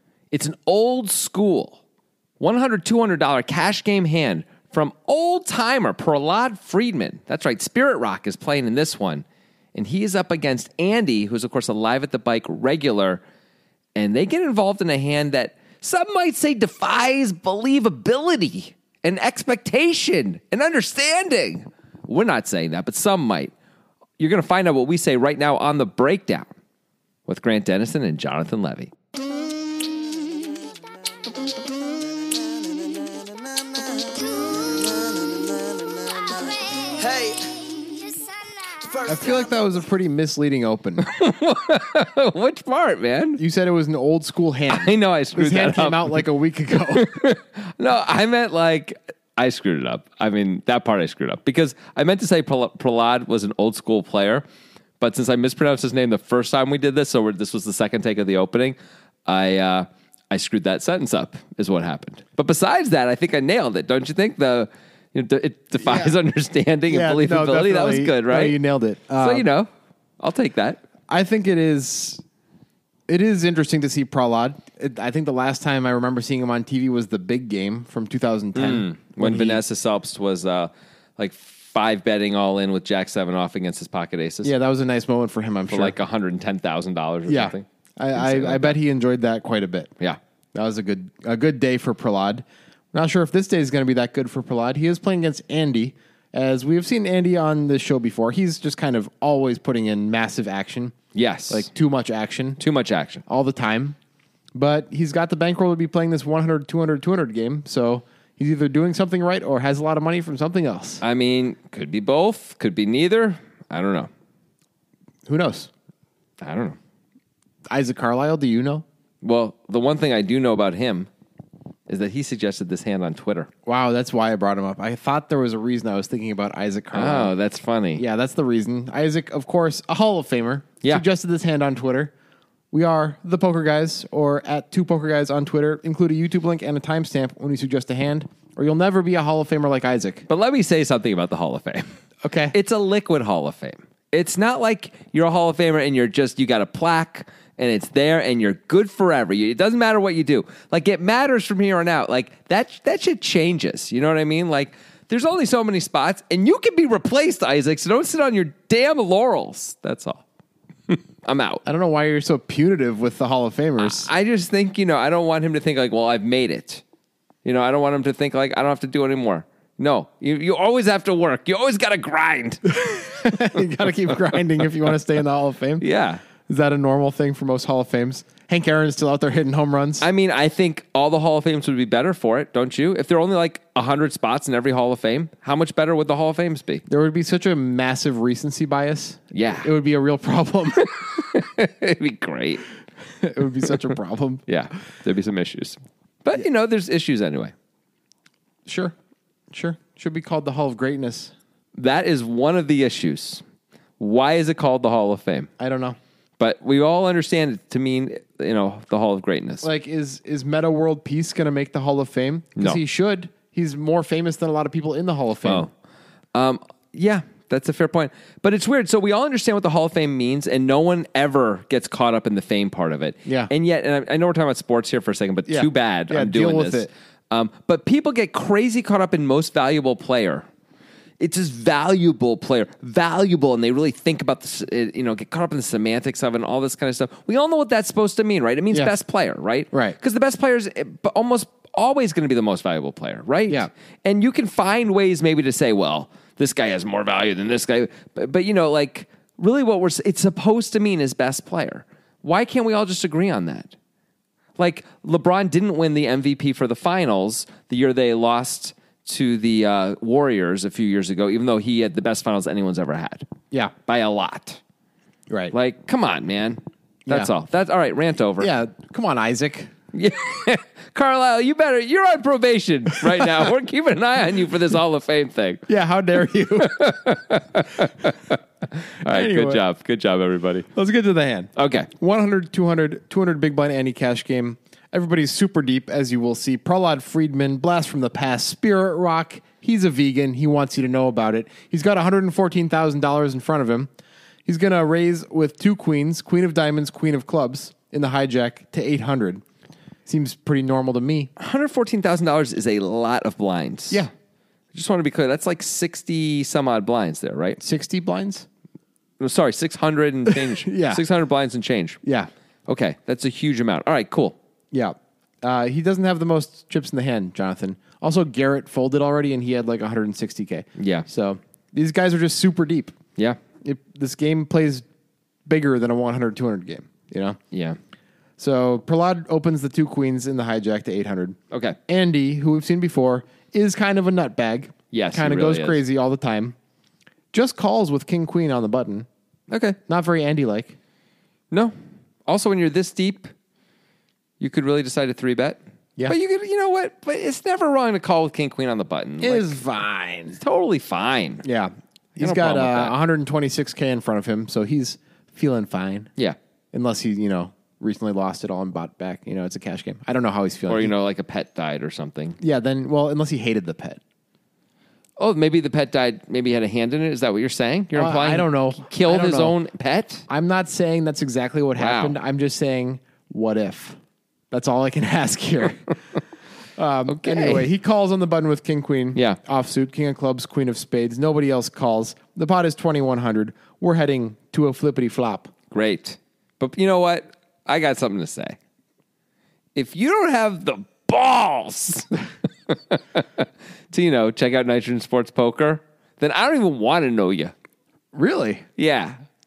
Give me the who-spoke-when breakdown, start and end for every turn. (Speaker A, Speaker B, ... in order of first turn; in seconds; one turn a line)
Speaker A: 0.3-1.8
Speaker A: 2.4-13.2
Speaker A: 13.9-23.5
Speaker A: 24.2-26.5
Speaker A: 27.3-28.9
Speaker B: 32.7-39.4
Speaker C: 39.1-41.1
Speaker A: 41.0-43.4
Speaker C: 43.4-47.2
Speaker A: 44.7-46.2
Speaker A: 46.9-54.4
Speaker A: 55.0-68.6
Speaker C: 65.8-66.2
Speaker C: 66.9-69.5
Speaker A: 69.2-69.7
Speaker A: 70.2-70.8
Speaker C: 71.1-72.2
Speaker C: 73.1-79.6
Speaker A: 78.5-84.5
Speaker C: 84.4-86.0
Speaker A: 85.7-88.8
Speaker C: 87.3-89.9
Speaker C: 90.5-101.0
Speaker A: 101.1-101.7
Speaker C: 101.5-102.6
Speaker A: 102.6-103.2
Speaker C: 103.3-104.0
Speaker C: 104.5-111.0
Speaker A: 111.0-114.1
Speaker C: 115.3-115.7
Speaker A: 116.4-116.8
Speaker C: 117.7-118.8
Speaker A: 119.2-121.1
Speaker A: 121.9-123.5
Speaker C: 123.7-127.3
Speaker A: 126.9-128.0
Speaker C: 128.0-132.1
Speaker C: 132.7-140.3
Speaker A: 140.3-141.8
Speaker C: 142.2-142.6
Speaker A: 142.5-160.2
Speaker A: 160.9-161.6
Speaker C: 161.7-164.1
Speaker A: 163.8-166.8
Speaker A: 167.4-173.3
Speaker C: 172.7-175.8
Speaker A: 174.1-174.4
Speaker A: 175.8-176.2
Speaker C: 176.5-180.1
Speaker A: 180.0-186.8
Speaker C: 186.9-190.9
Speaker A: 189.3-189.7
Speaker A: 190.8-192.7
Speaker C: 193.2-194.4
Speaker A: 194.5-197.5
Speaker C: 198.7-198.9
Speaker C: 199.5-201.3
Speaker A: 201.8-203.4
Speaker A: 204.0-205.5
Speaker C: 205.6-206.0
Speaker A: 206.4-209.7
Speaker C: 209.6-215.7
Speaker A: 215.4-215.7
Speaker A: 216.3-230.5
Speaker C: 223.2-223.5
Speaker C: 225.5-226.9
Speaker A: 231.2-253.7
Speaker C: 239.7-240.0
Speaker A: 254.6-263.3
Speaker A: 263.8-264.6
Speaker C: 265.3-265.5
Speaker A: 265.5-268.5
Speaker C: 268.4-269.7
Speaker A: 269.9-275.7
Speaker C: 275.7-276.8
Speaker A: 276.6-280.7
Speaker C: 279.0-279.6
Speaker C: 280.7-293.9
Speaker A: 281.6-281.9
Speaker C: 294.4-299.4
Speaker C: 300.1-301.3
Speaker A: 301.4-304.0
Speaker A: 304.7-307.6
Speaker C: 307.6-308.5
Speaker A: 309.2-312.0
Speaker C: 310.3-311.0
Speaker C: 312.0-312.3
Speaker A: 312.7-314.4
Speaker C: 314.7-322.9
Speaker A: 320.8-321.1
Speaker C: 323.6-324.9
Speaker C: 325.4-327.4
Speaker A: 327.5-327.8
Speaker C: 328.4-336.6
Speaker A: 331.5-331.8
Speaker A: 334.9-335.8
Speaker C: 337.3-339.1
Speaker A: 339.5-339.8
Speaker C: 339.9-340.8
Speaker A: 342.2-343.3
Speaker A: 344.4-349.5
Speaker C: 349.2-350.4
Speaker A: 350.4-351.4
Speaker C: 351.4-356.1
Speaker A: 352.2-352.9
Speaker C: 356.7-360.9
Speaker A: 360.7-362.4
Speaker C: 362.4-364.0
Speaker A: 365.2-370.2
Speaker C: 367.9-369.6
Speaker C: 370.3-374.0
Speaker A: 371.8-372.2
Speaker C: 374.5-375.9
Speaker C: 376.8-385.5
Speaker A: 377.1-377.7
Speaker A: 385.7-388.6
Speaker A: 389.7-397.5
Speaker C: 398.1-398.6
Speaker A: 398.8-399.1